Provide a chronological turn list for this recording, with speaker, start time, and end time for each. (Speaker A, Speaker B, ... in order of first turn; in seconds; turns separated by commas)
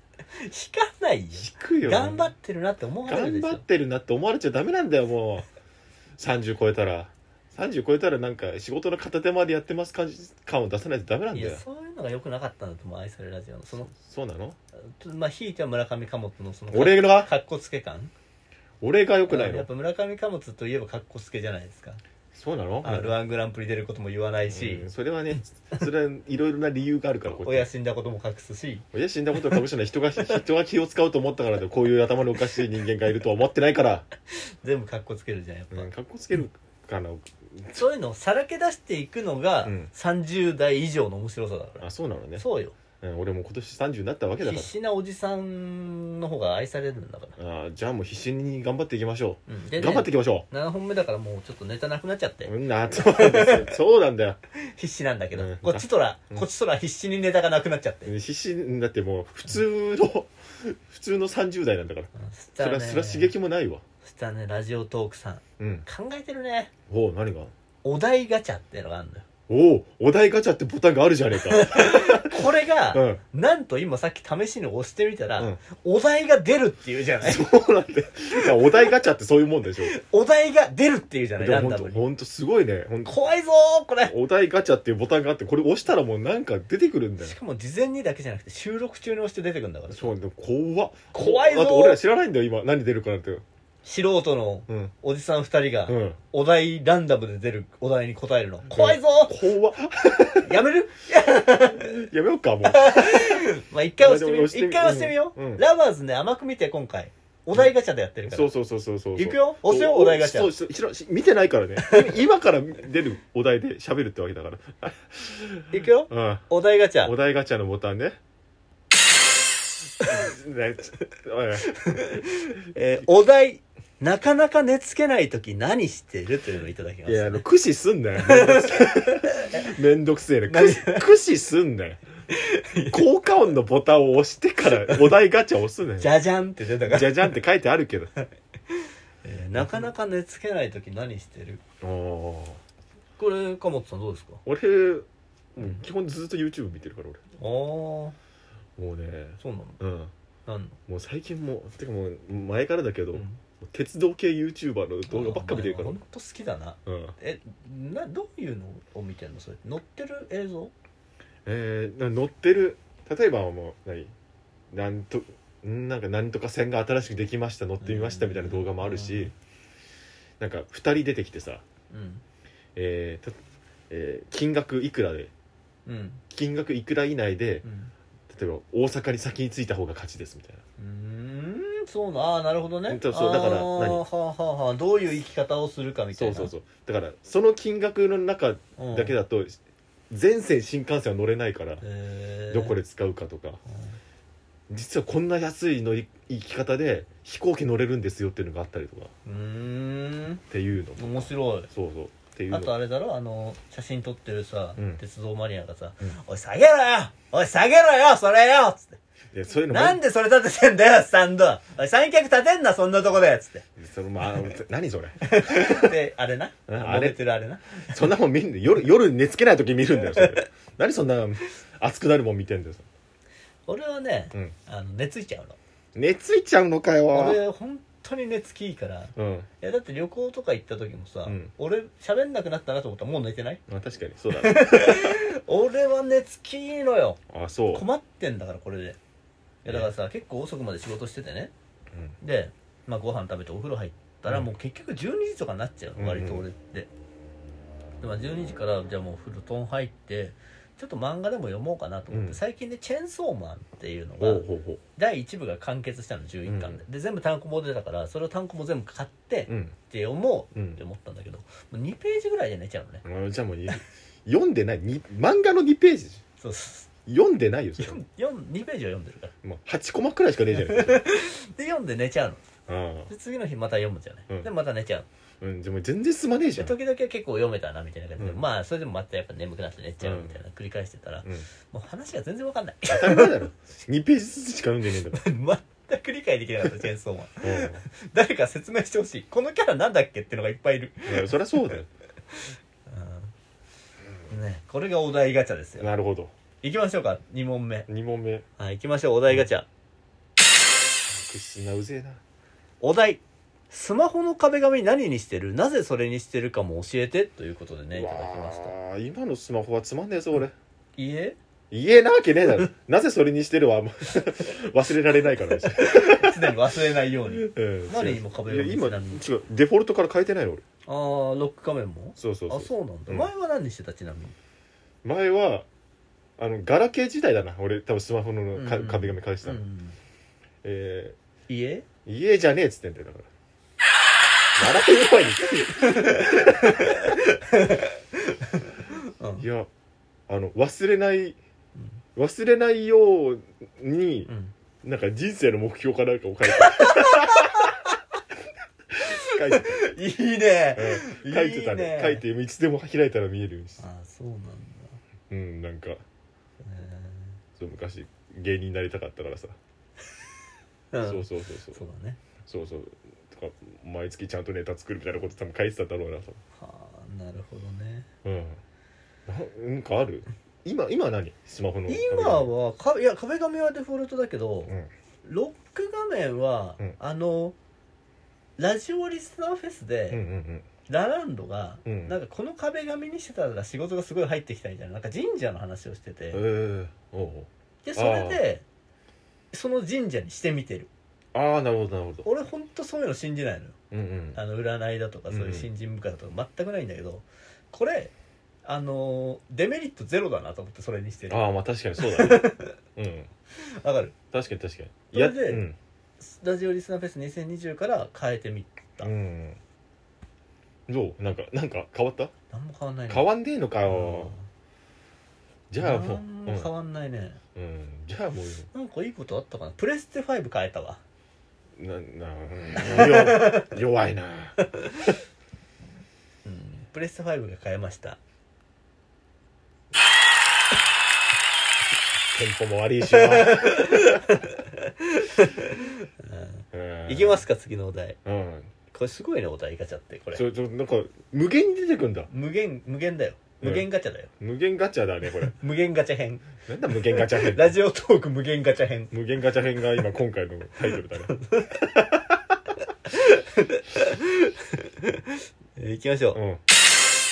Speaker A: 0.4-3.6, Speaker B: 1.4-2.3, Speaker B: 3.1-5.5, Speaker B: 6.2-11.6, Speaker A: 11.3-13.9, Speaker B: 13.8-14.6, Speaker A: 15.0-18.1, Speaker B: 16.7-17.3, Speaker B: 18.8-19.7, Speaker A: 19.3-22.0, Speaker B: 22.3-23.2, Speaker A: 22.8-24.9, Speaker B: 24.5-27.7, Speaker A: 27.4-28.9, Speaker B: 28.9-34.1, Speaker A: 34.4-35.9, Speaker B: 35.7-37.9, Speaker A: 37.8-41.9, Speaker B: 39.6-39.9, Speaker B: 41.8-42.5, Speaker A: 42.4-42.8, Speaker B: 43.0-44.7, Speaker A: 44.4-47.4, Speaker B: 47.4-50.5, Speaker A: 49.5-53.7, Speaker B: 52.5-54.4, Speaker A: 54.6-58.1, Speaker B: 55.4-56.5, Speaker B: 58.1-63.8, Speaker A: 62.2-63.3, Speaker A: 64.0-66.7, Speaker B: 65.6-65.8, Speaker B: 66.9-67.5, Speaker A: 67.8-69.2, Speaker B: 69.5-73.2, Speaker A: 71.5-77.5, Speaker B: 77.2-80.0, Speaker A: 79.9-82.0, Speaker B: 81.4-83.2, Speaker A: 83.1-84.1, Speaker B: 84.1-87.4, Speaker A: 87.2-90.1, Speaker B: 89.9-93.4, Speaker A: 91.1-92.0, Speaker A: 93.8-99.5, Speaker B: 94.7-94.9, Speaker B: 95.9-96.2, Speaker B: 98.7-100.6, Speaker A: 100.4-102.0, Speaker B: 101.7-105.6, Speaker A: 102.7-108.5, Speaker B: 108.3-116.5, Speaker A: 109.2-110.5, Speaker A: 111.8-112.2, Speaker A: 115.7-117.1, Speaker B: 117.0-118.2, Speaker B: 120.1-121.8, Speaker A: 121.8-127.4, Speaker B: 127.1-132.0, Speaker A: 128.2-129.6, Speaker A: 130.5-131.0, Speaker A: 132.3-133.0, Speaker B: 132.9-136.1, Speaker A: 136.0-137.4, Speaker B: 136.8-138.1, Speaker A: 138.7-141.6, Speaker B: 139.6-139.9, Speaker B: 141.8-142.6, Speaker A: 143.2-144.4, Speaker B: 144.5-147.2, Speaker A: 147.4-148.2, Speaker B: 148.8-150.1, Speaker A: 149.4-149.8, Speaker A: 150.5-150.8, Speaker B: 150.9-156.0, Speaker A: 153.1-153.4, Speaker A: 155.1-160.7, Speaker B: 156.9-157.2, Speaker B: 161.5-164.1, Speaker B: 164.7-169.3, Speaker A: 167.8-169.3, Speaker B: 170.4-171.6, Speaker A: 171.9-172.2, Speaker B: 172.8-173.4, Speaker B: 173.9-175.3, Speaker A: 175.9-176.2, Speaker B: 176.3-177.7, Speaker A: 177.6-177.9, Speaker B: 178.3-180.6, Speaker A: 180.8-186.5, Speaker B: 182.9-184.0, Speaker B: 186.2-189.6, Speaker A: 188.8-189.2, Speaker B: 190.1-191.8, Speaker A: 191.8-192.7, Speaker B: 192.5-193.6, Speaker B: 194.7-199.1, Speaker A: 199.2-200.4, Speaker B: 200.5-202.7, Speaker A: 201.0-201.7, Speaker A: 202.5-209.0, Speaker B: 209.3-210.0, Speaker A: 209.7-213.7, Speaker B: 213.8-216.0, Speaker A: 215.3-217.9, Speaker B: 216.7-217.2, Speaker B: 217.9-222.9, Speaker A: 220.0-220.4, Speaker A: 223.7-225.6, Speaker B: 225.9-227.4, Speaker A: 227.1-233.6, Speaker B: 229.2-229.5, Speaker B: 231.3-231.5, Speaker B: 233.7-235.2, Speaker A: 234.4-237.2, Speaker B: 237.3-237.9, Speaker A: 237.7-239.0, Speaker A: 239.6-241.5, Speaker A: 242.2-246.9, Speaker B: 246.0-246.5, Speaker A: 248.0-254.4, Speaker B: 252.1-252.4, Speaker B: 254.2-254.8, Speaker A: 255.0-263.0, Speaker B: 256.4-256.8, Speaker B: 259.5-259.8, Speaker B: 260.6-260.8, Speaker B: 263.0-266.2, Speaker A: 266.4-266.9, Speaker B: 267.1-268.0, Speaker A: 267.8-269.3, Speaker B: 269.4-271.0, Speaker A: 270.7-272.4, Speaker B: 272.7-273.1, Speaker A: 273.1-275.1, Speaker B: 275.4-276.7, Speaker A: 276.6-283.3, Speaker B: 280.0-280.4, Speaker B: 282.9-285.2, Speaker A: 285.1-291.3, Speaker B: 287.4-287.9, Speaker B: 291.1-291.9, Speaker A: 292.3-293.3, Speaker A: 294.3-295.9, Speaker B: 295.8-296.3, Speaker A: 296.6-297.9, Speaker B: 297.9-298.5, Speaker A: 298.6-299.7, Speaker B: 301.1-302.2, Speaker A: 302.8-308.7, Speaker B: 307.9-310.5, Speaker A: 311.0-311.4, Speaker B: 311.7-316.6, Speaker A: 315.7-319.2, Speaker B: 317.3-320.6, Speaker A: 320.9-324.4, Speaker B: 322.2-323.3, Speaker B: 325.0-325.7, Speaker B: 326.4-329.6, Speaker A: 328.6-330.0, Speaker B: 330.6-331.2, Speaker A: 331.5-331.9, Speaker B: 332.1-333.3, Speaker B: 334.6-336.8, Speaker A: 335.8-339.4, Speaker B: 339.4-339.7, Speaker B: 340.3-341.4, Speaker B: 342.2-344.3, Speaker A: 344.3-344.5, Speaker B: 344.8-347.7, Speaker A: 346.6-347.7, Speaker B: 349.0-349.9, Speaker A: 349.1-352.2, Speaker B: 350.8-353.8, Speaker A: 353.8-355.0, Speaker B: 355.3-356.0, Speaker A: 356.6-357.4, Speaker B: 357.6-359.6, Speaker A: 360.9-362.2, Speaker B: 361.0-361.8, Speaker B: 362.5-366.4, Speaker A: 366.6-368.1, Speaker B: 368.2-368.6, Speaker B: 369.3-372.5, Speaker A: 371.9-377.6, Speaker A: 378.6-380.2, Speaker B: 380.1-380.7, Speaker A: 380.9-386.4, Speaker B: 381.9-382.2, Speaker B: 386.3-388.4, Speaker A: 387.8-388.6, Speaker A: 389.5-390.9, Speaker B: 391.3-392.3, Speaker A: 392.2-393.8, Speaker B: 393.9-394.4, Speaker A: 394.4-398.1, Speaker B: 395.3-395.7, Speaker A: 398.6-401.5, Speaker B: 401.3-403.3, Speaker A: 402.0-402.8, Speaker A: 403.6-404.1, Speaker B: 404.3-405.8, Speaker A: 405.1-405.6, Speaker A: 406.2-409.1, Speaker B: 409.0-409.6, Speaker B: 410.9-412.3, Speaker A: 412.5-413.2, Speaker B: 413.1-414.4, Speaker A: 413.9-414.5, Speaker B: 415.7-416.7, Speaker A: 415.8-417.4, Speaker B: 417.6-418.7, Speaker A: 418.7-421.0, Speaker B: 421.8-424.6, Speaker A: 422.9-423.7, Speaker A: 426.4-428.2, Speaker B: 432.3-434.2, Speaker A: 433.1-438.2, Speaker B: 436.7-437.4, Speaker B: 438.2-438.7, Speaker A: 438.9-440.4, Speaker B: 440.3-442.3, Speaker A: 442.3-444.3, Speaker B: 444.4-445.6, Speaker A: 445.5-446.5, Speaker B: 446.7-447.8, Speaker A: 447.1-449.1, Speaker B: 449.1-451.4, Speaker A: 451.3-452.1, Speaker A: 453.1-456.4, Speaker B: 456.3-456.6